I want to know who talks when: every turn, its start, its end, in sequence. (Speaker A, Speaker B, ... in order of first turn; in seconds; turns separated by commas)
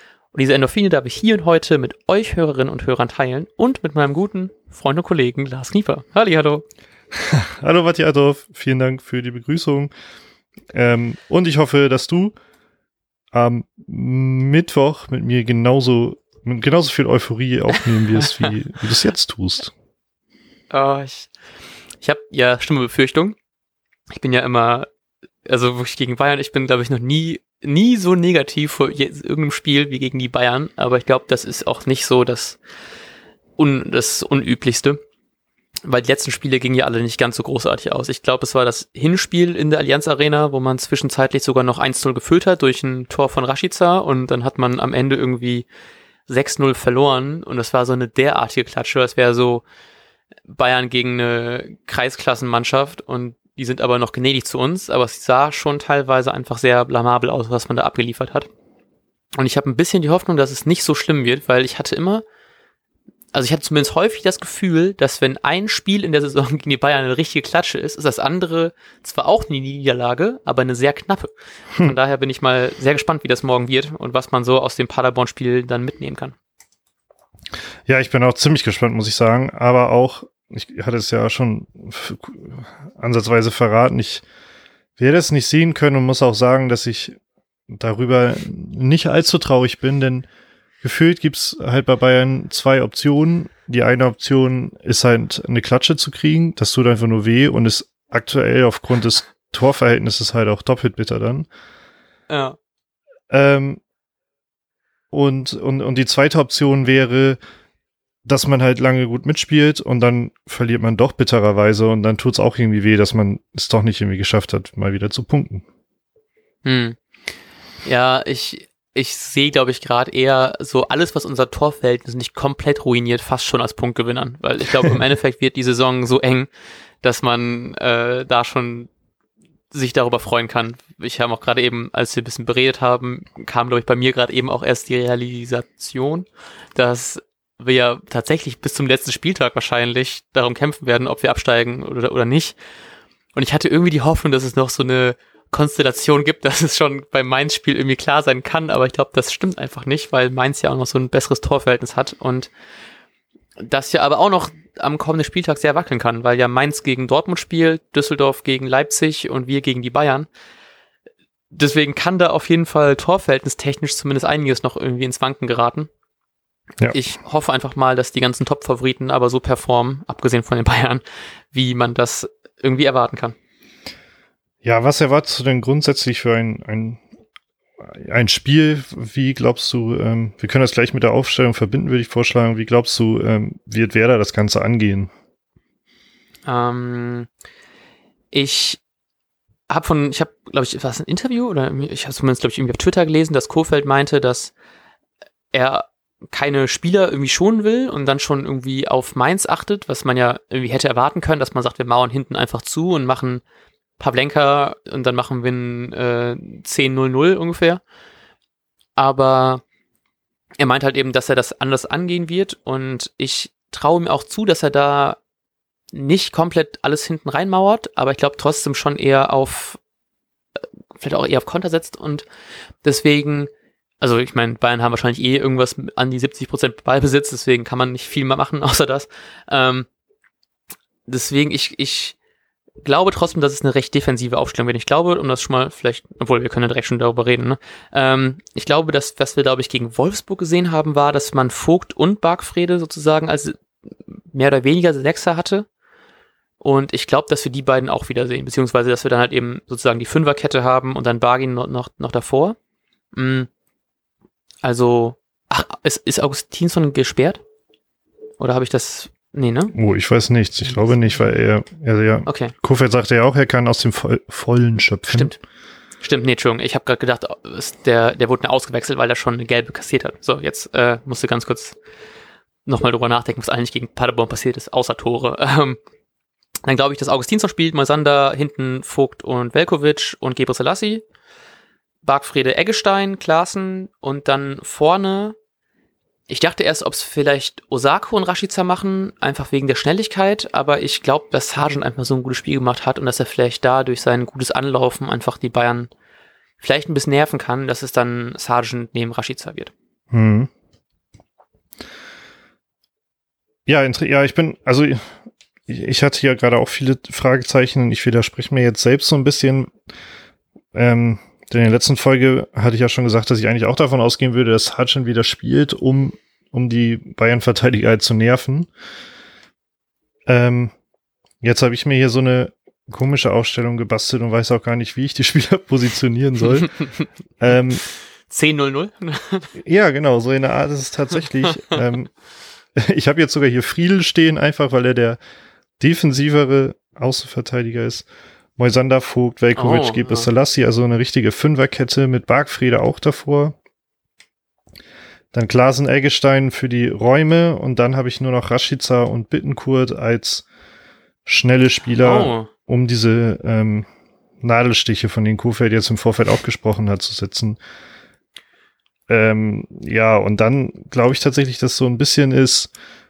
Speaker A: 0.3-6.6, Speaker B: 7.1-9.9, Speaker B: 10.7-12.3, Speaker B: 13.3-19.7, Speaker A: 20.7-21.3, Speaker A: 22.0-23.4, Speaker A: 24.1-24.9, Speaker A: 25.4-32.6, Speaker A: 33.6-35.0, Speaker A: 35.8-45.6, Speaker A: 46.3-49.6, Speaker A: 50.5-58.5, Speaker A: 59.4-62.2, Speaker A: 63.3-76.3, Speaker B: 77.9-84.2, Speaker B: 85.0-87.1, Speaker B: 87.7-90.3, Speaker B: 90.8-101.5, Speaker A: 102.3-102.5, Speaker B: 103.3-103.8, Speaker B: 105.1-107.4, Speaker B: 108.2-115.6, Speaker A: 116.6-117.0, Speaker A: 117.8-126.5, Speaker A: 127.0-128.9, Speaker A: 129.7-142.6, Speaker A: 143.3-152.5, Speaker A: 153.6-160.3, Speaker A: 161.5-165.9, Speaker A: 166.9-173.3, Speaker B: 174.6-177.0, Speaker B: 177.8-185.1, Speaker A: 186.4-187.3, Speaker A: 188.3-188.8, Speaker A: 189.7-194.5, Speaker A: 195.5-203.4, Speaker A: 204.0-207.8, Speaker A: 209.0-209.6, Speaker A: 210.6-215.2, Speaker A: 215.9-219.8, Speaker A: 220.9-222.2, Speaker A: 222.8-223.5, Speaker A: 224.0-229.9, Speaker A: 231.1-232.2, Speaker A: 232.8-245.7, Speaker A: 246.6-252.6, Speaker A: 253.1-253.5, Speaker A: 254.6-257.4, Speaker A: 258.4-259.7, Speaker B: 259.7-265.3, Speaker A: 262.2-262.5, Speaker A: 265.1-265.4, Speaker A: 266.0-271.8, Speaker A: 272.6-275.8, Speaker A: 276.6-281.0, Speaker A: 282.0-285.3, Speaker A: 286.3-295.9, Speaker A: 296.6-299.7, Speaker B: 300.1-300.5, Speaker B: 303.7-305.1, Speaker B: 305.7-309.7, Speaker B: 310.7-318.7, Speaker B: 320.3-320.7, Speaker B: 321.4-326.8, Speaker B: 327.4-327.8, Speaker A: 328.3-329.5, Speaker B: 329.6-332.1, Speaker B: 332.8-335.2, Speaker B: 335.8-338.1, Speaker B: 338.6-343.6, Speaker A: 339.6-340.3, Speaker B: 345.3-350.4, Speaker B: 351.2-353.9, Speaker A: 352.0-352.5, Speaker B: 354.4-357.6, Speaker B: 359.1-362.7